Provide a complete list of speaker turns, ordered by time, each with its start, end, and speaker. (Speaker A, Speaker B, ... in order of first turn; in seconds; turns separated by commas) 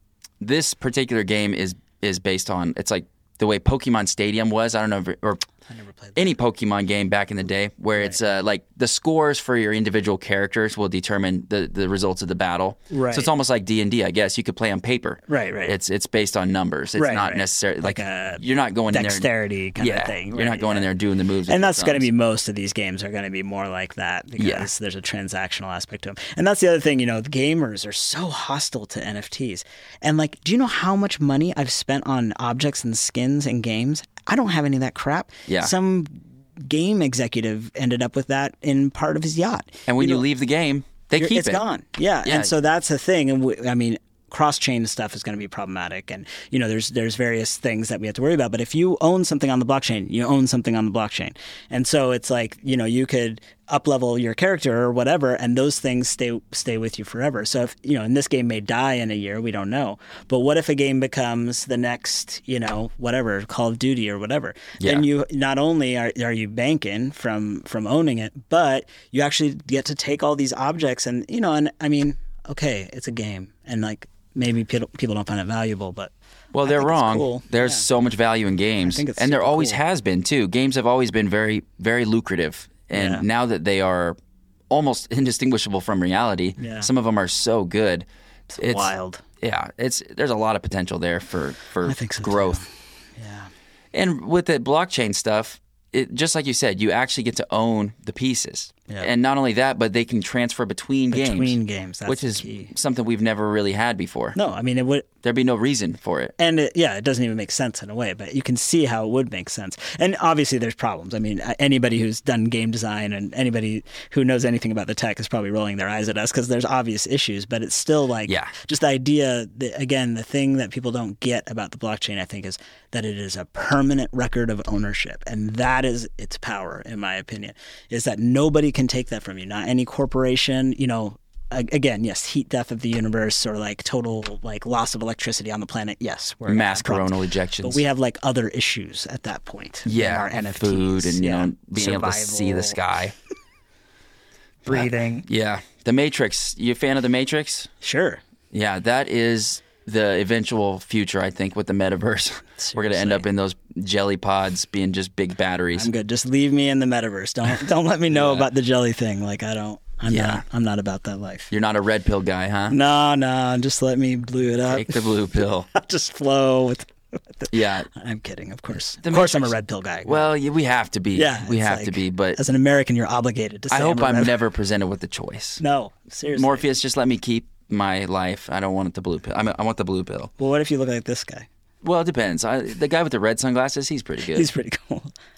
Speaker A: 0.4-5.4, Speaker B: 5.7-6.3, Speaker A: 6.1-19.3, Speaker B: 12.9-13.3, Speaker B: 15.3-15.7, Speaker B: 17.0-20.9, Speaker A: 19.8-22.1, Speaker B: 21.5-40.2, Speaker A: 24.4-24.7, Speaker A: 35.5-35.7, Speaker A: 39.9-41.6, Speaker B: 41.2-76.1, Speaker A: 42.2-42.5, Speaker A: 64.8-65.1, Speaker A: 76.5-84.2, Speaker B: 76.6-77.8, Speaker B: 78.8-79.8, Speaker B: 82.9-83.2, Speaker A: 84.7-88.0, Speaker B: 86.6-86.9, Speaker B: 88.5-89.2, Speaker A: 88.6-92.6, Speaker B: 91.8-93.5, Speaker A: 93.9-104.4, Speaker B: 101.1-102.7, Speaker B: 104.3-105.1, Speaker A: 105.2-106.3, Speaker B: 106.4-142.8, Speaker A: 118.2-118.5, Speaker A: 136.4-137.8, Speaker A: 139.8-143.1, Speaker B: 144.6-145.2, Speaker A: 144.7-147.7, Speaker B: 147.8-148.2, Speaker A: 148.5-155.9, Speaker B: 152.6-153.2, Speaker B: 155.7-161.5, Speaker A: 158.1-158.5, Speaker A: 160.1-160.4, Speaker A: 161.5-162.8, Speaker B: 162.7-170.3, Speaker A: 164.7-165.7, Speaker A: 167.5-167.9, Speaker A: 169.0-172.4, Speaker B: 171.1-174.3, Speaker A: 173.7-175.6, Speaker B: 175.6-176.6, Speaker A: 176.3-180.3, Speaker B: 180.4-181.5, Speaker A: 181.8-184.5, Speaker B: 184.3-185.1